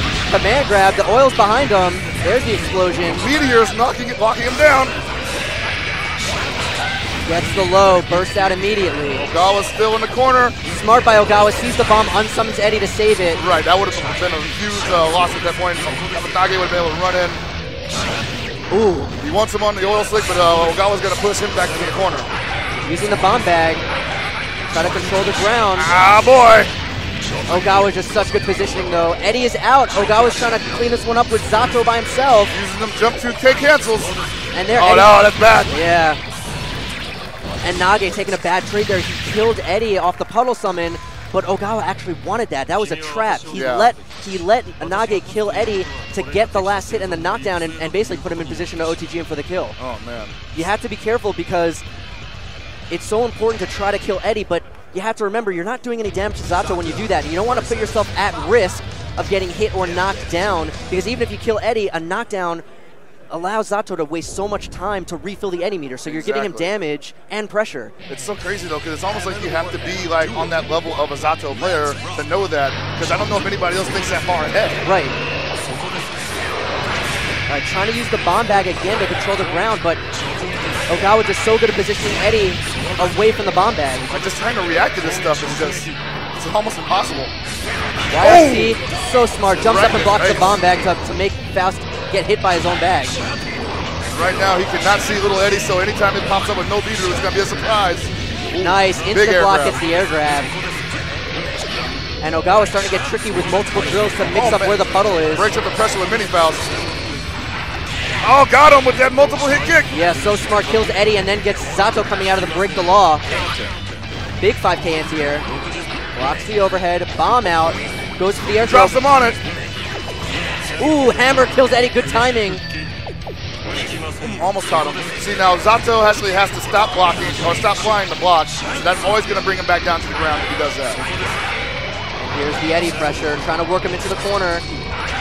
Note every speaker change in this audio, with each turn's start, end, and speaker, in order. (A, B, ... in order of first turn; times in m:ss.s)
0:00.3-0:03.2 A
0:03.1-0:04.9 B
0:07.2-0:09.2 A
0:09.1-0:10.6 B
0:10.6-0:13.4 A
0:13.4-0:17.4 B
0:18.7-0:19.1 A
0:19.2-0:22.3 B
0:22.8-0:23.8 A
0:24.7-0:25.9 A
0:25.8-0:26.7 B
0:27.5-0:32.5 A
0:32.5-0:34.2 B
0:34.5-0:35.1 A
0:34.7-0:35.7 B
0:35.7-0:36.2 A
0:37.6-0:49.8 A
0:43.5-0:43.9 B
0:49.8-0:50.4 B
0:50.5-0:51.8 A
0:52.9-1:02.6 A
1:03.3-1:07.9 A
1:06.0-1:06.7 B
1:08.1-1:14.8 B
1:14.8-1:15.2 A
1:17.5-1:20.0 A
1:20.9-1:24.1 A
1:24.1-1:27.3 B
1:28.1-1:33.2 A
1:28.2-1:28.8 B
1:29.7-1:30.5 B
1:34.1-1:39.8 B
1:38.6-1:40.5 A
1:42.2-1:45.5 A
1:44.3-1:46.7 B
1:48.2-1:49.9 B
1:49.9-1:53.2 A
1:54.4-1:55.4 A
1:56.1-1:59.0 A
1:58.6-1:59.4 B
2:00.8-2:02.6 A
2:04.2-2:11.0 B
2:12.2-2:14.6 A